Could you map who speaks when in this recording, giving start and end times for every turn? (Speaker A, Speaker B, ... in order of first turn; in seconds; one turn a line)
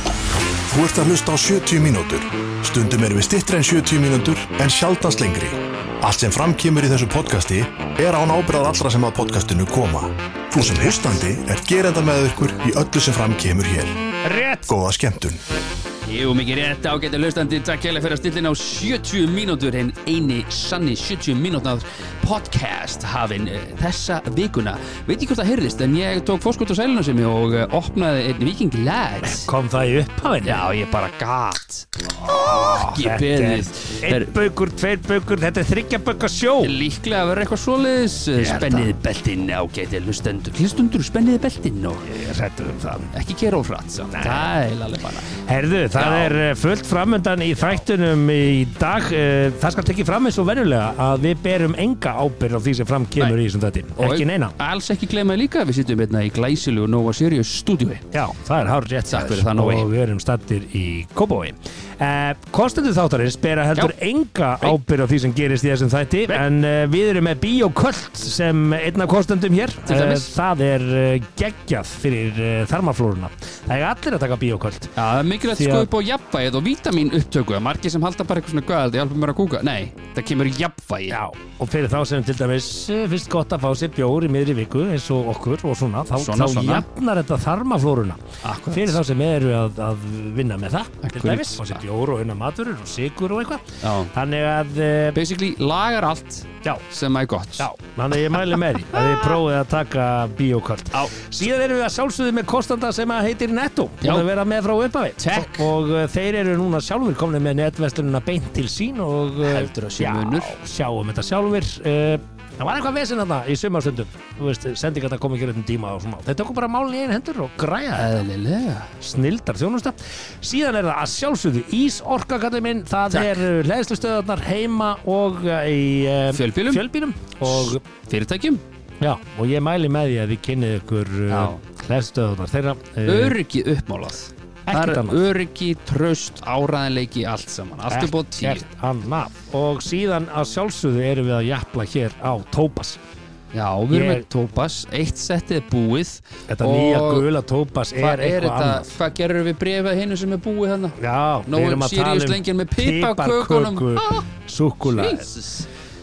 Speaker A: 0.7-14.0
Speaker B: 10.6-11.2
Speaker B: 14.2-14.7
Speaker A: 14.7-15.4
Speaker B: 16.1-29.5
Speaker C: 29.2-30.7
Speaker B: 30.4-34.3
Speaker C: 32.3-36.8
Speaker B: 36.6-42.1
Speaker C: 38.4-38.9
Speaker C: 42.0-43.1
Speaker B: 43.1-45.4
Speaker C: 44.1-44.5
Speaker C: 45.3-54.5
Speaker B: 45.9-46.4
Speaker B: 54.0-58.0
Speaker C: 58.1-74.9
Speaker B: 59.1-59.9
Speaker B: 69.8-70.3
Speaker B: 75.0-81.2
Speaker C: 75.5-75.9
Speaker C: 81.1-95.2
Speaker B: 86.1-86.8
Speaker B: 88.4-89.0
Speaker B: 91.0-91.8
Speaker B: 93.8-94.1
Speaker B: 95.1-97.7
Speaker C: 97.6-118.2
Speaker B: 98.9-99.3
Speaker B: 100.9-101.2
Speaker B: 104.0-104.3
Speaker B: 105.2-105.7
Speaker B: 109.4-110.5
Speaker B: 117.9-119.0
Speaker C: 119.0-127.8
Speaker B: 123.1-123.4
Speaker B: 126.3-126.8
Speaker B: 127.4-128.6
Speaker C: 129.0-133.4
Speaker B: 131.3-131.6
Speaker B: 133.1-138.7
Speaker C: 134.7-135.2
Speaker C: 137.9-143.0
Speaker B: 143.5-147.3
Speaker C: 143.9-144.2
Speaker C: 146.5-148.9
Speaker B: 148.0-154.3
Speaker C: 151.0-155.3
Speaker B: 154.9-155.7